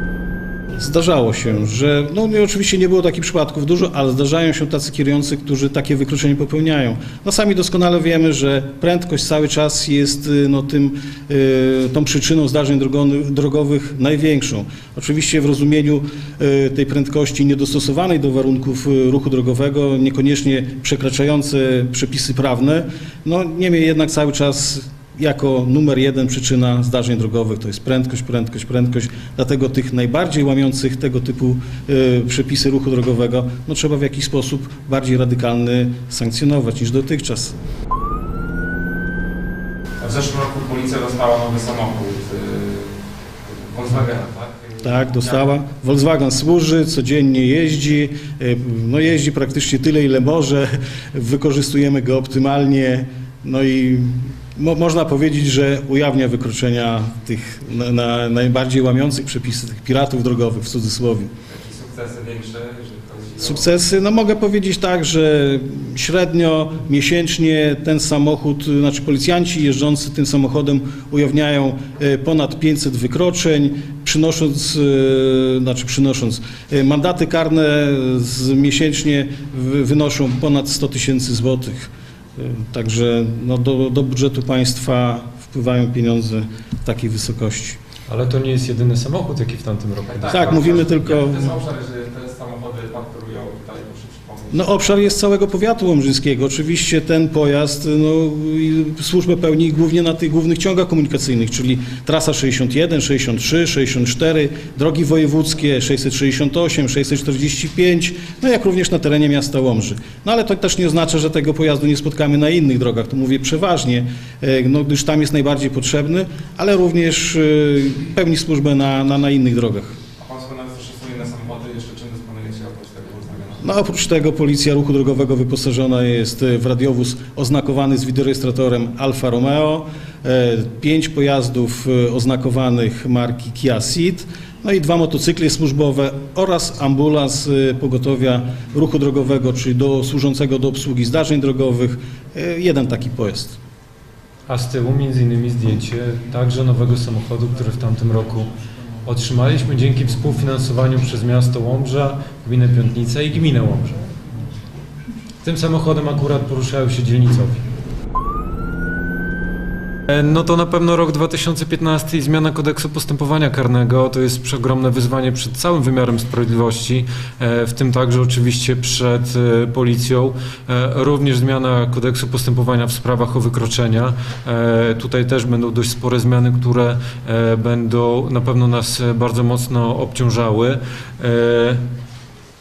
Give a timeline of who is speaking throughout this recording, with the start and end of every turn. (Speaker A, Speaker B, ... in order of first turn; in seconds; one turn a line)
Speaker A: 0.7-37.5
Speaker B: 40.0-45.4
Speaker A: 44.8-61.3
Speaker B: 61.5-63.7
Speaker A: 63.4-87.8
Speaker C: 88.1-90.7
Speaker B: 90.1-94.7
Speaker A: 90.3-91.5
Speaker A: 94.5-120.0
Speaker B: 120.2-123.6
Speaker A: 123.6-143.6
Speaker C: 144.5-148.5
Speaker C: 149.0-154.0
Speaker C: 155.4-157.6
Speaker C: 160.1-181.8